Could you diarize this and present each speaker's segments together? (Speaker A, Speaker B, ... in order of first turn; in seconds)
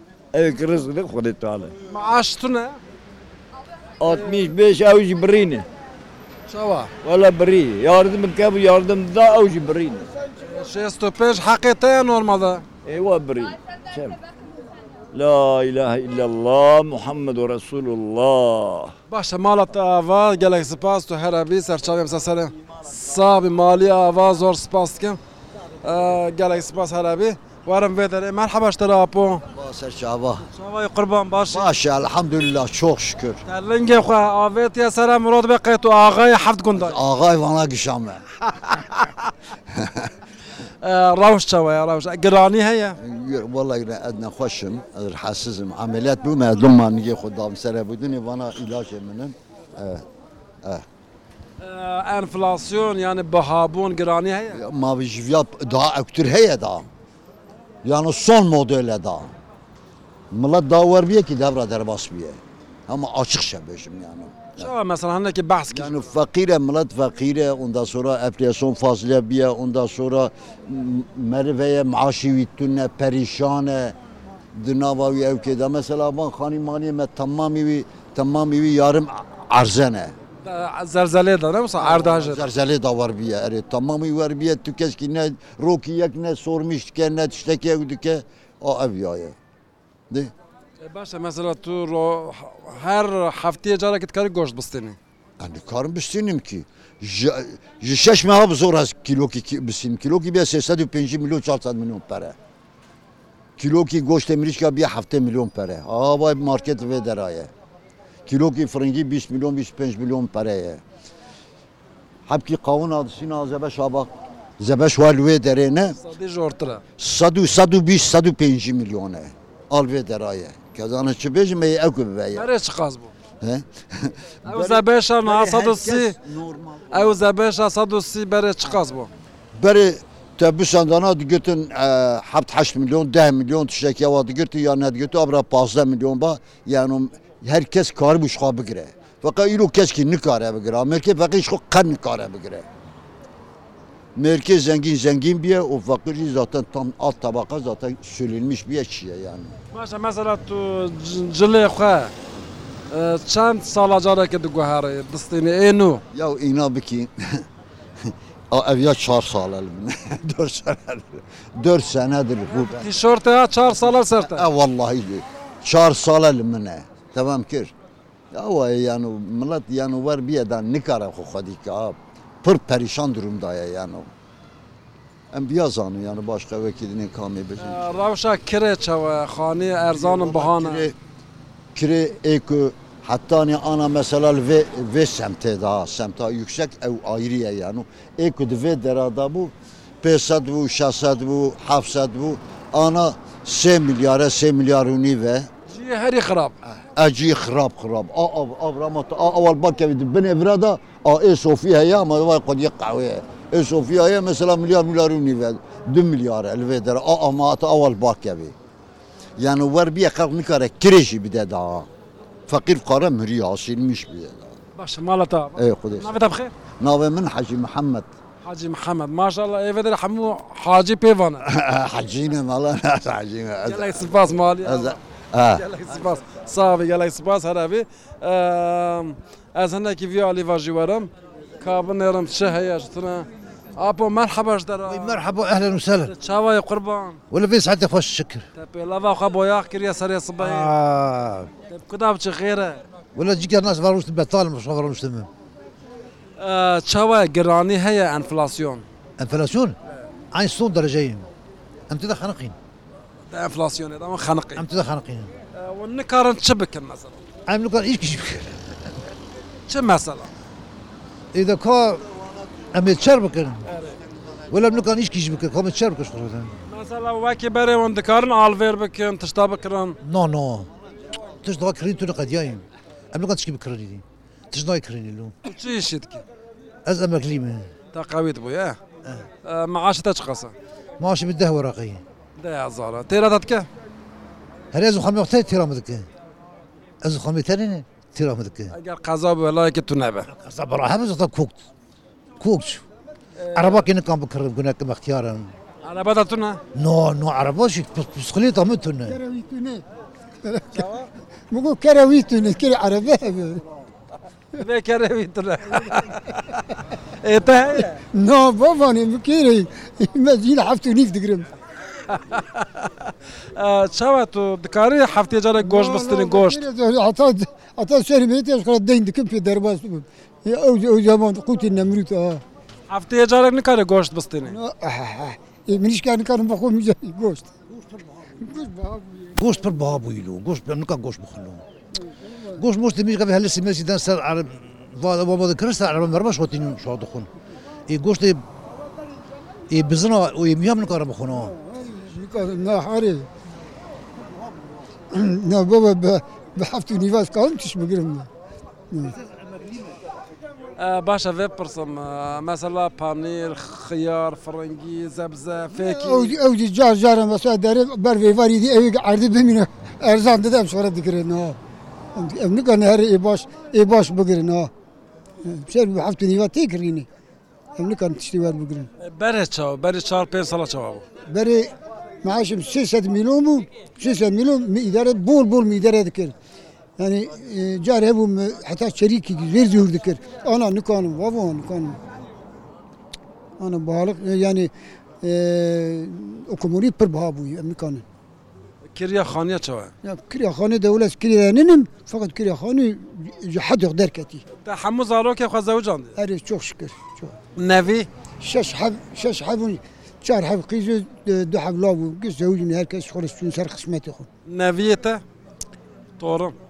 Speaker A: 0.3-1.7, 4.0-5.7, 7.0-10.1, 12.8-14.2, 15.1-18.9
Speaker B: 1.9-2.8, 6.5-6.9, 10.4-12.6, 19.1-25.2, 25.8-29.4, 30.5-31.7, 33.5-37.0, 40.8-43.0, 51.6-54.6, 64.6-66.0, 80.4-82.5, 90.8-95.0, 116.0-116.8, 122.3-123.1, 124.5-126.2, 126.9-129.1, 149.7-152.1, 152.9-156.0, 162.5-164.4, 177.6-180.9, 195.7-196.6, 214.8-216.5, 218.4-221.4, 223.6-225.0, 225.5-231.1, 231.6-235.2, 236.1-237.2, 238.5-240.7, 241.7-242.8, 246.4-248.8, 253.3-254.6, 255.5-257.2, 259.7-260.3, 263.7-264.0, 266.7-270.0, 275.4-276.2, 277.9-278.8, 279.4-280.5, 282.4-283.7, 288.7-290.3, 293.4-293.8, 295.8-296.6, 300.7-301.1, 304.6-306.6, 307.2-308.0, 312.1-316.6, 322.9-324.6, 350.8-356.4, 369.0-371.0, 388.9-389.9, 394.6-396.1, 397.6-398.1, 404.4-405.2, 406.2-406.6
Speaker C: 29.5-30.5, 31.5-33.4, 36.7-38.2, 39.7-40.1, 43.0-50.0, 54.5-56.9, 57.8-59.3, 60.3-64.7, 65.7-74.0, 74.5-80.1, 81.8-89.3, 95.4-102.3, 103.6-107.5, 108.2-110.8, 112.3-116.0, 117.0-122.5, 123.4-127.2, 129.6-142.7, 144.2-149.5, 156.1-157.4, 158.0-162.9, 164.2-167.7, 168.3-174.1, 175.3-177.9, 179.8-180.9, 181.7-195.5, 196.9-208.5, 209.4-211.9, 212.5-214.5, 215.6-216.2, 216.8-218.1, 221.4-225.6
Speaker D: 234.8-236.1, 237.3-238.5, 240.4-241.5, 243.1-245.3, 249.2-249.8, 250.3-251.3, 251.9-252.6, 254.6-255.3, 257.5-258.6, 261.3-262.0, 262.7-263.7, 264.5-266.5, 270.0-270.7, 271.4-275.3, 276.8-277.7, 281.0-282.0, 284.7-286.1, 287.0-288.7, 290.3-291.6, 292.4-292.8, 293.5-295.5, 296.7-299.2, 329.3-331.6, 332.5-337.3, 337.9-338.4, 339.7-341.5
Speaker E: 299.1-299.8, 300.4-300.9, 301.5-303.6, 306.0-306.3, 308.1-311.5, 315.6-322.4, 324.5-327.6, 328.3-329.3, 341.5-343.3, 345.1-348.3, 348.9-349.1, 355.7-361.6, 362.1-364.7, 365.4-367.1, 367.8-368.9, 371.3-376.3, 377.0-382.0, 383.6-384.7, 385.2-388.0, 390.0-394.4, 396.2-397.4, 398.4-404.3